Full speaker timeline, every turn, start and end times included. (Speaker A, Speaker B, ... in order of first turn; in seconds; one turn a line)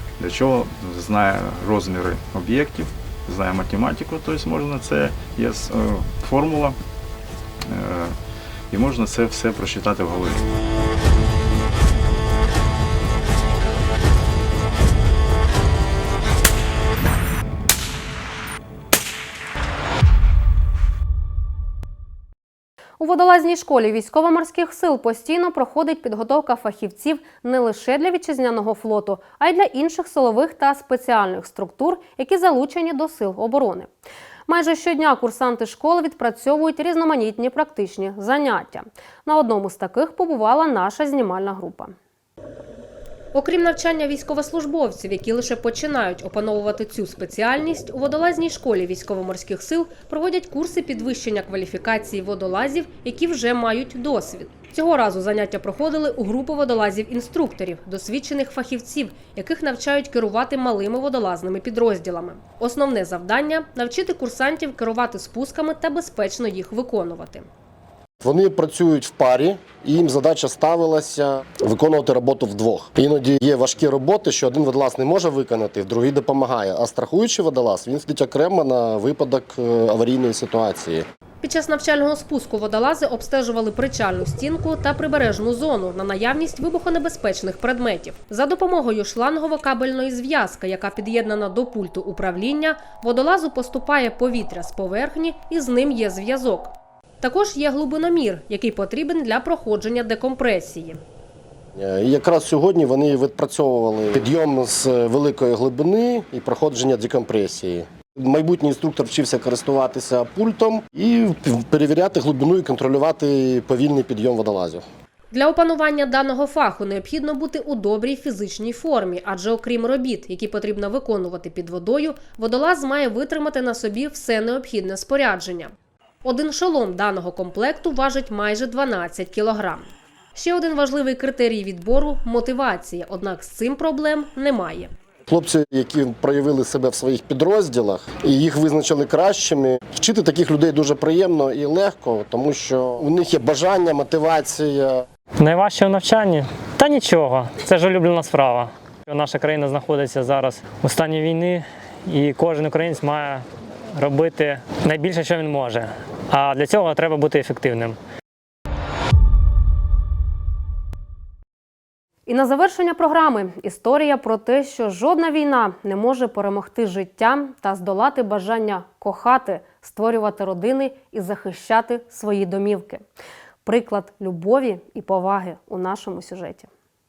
Speaker A: 0.2-6.8
Speaker A: 7.7-8.2
Speaker A: 8.7-10.4
Speaker B: 23.0-33.9
Speaker B: 34.5-41.9
Speaker B: 43.3-67.5
Speaker C: 68.2-81.0
Speaker B: 81.4-101.0
Speaker C: 101.8-114.8
Speaker B: 115.3-134.9
Speaker C: 135.3-145.0
Speaker D: 145.4-153.4
Speaker D: 154.0-158.0
Speaker B: 162.3-173.0
Speaker B: 173.7-176.7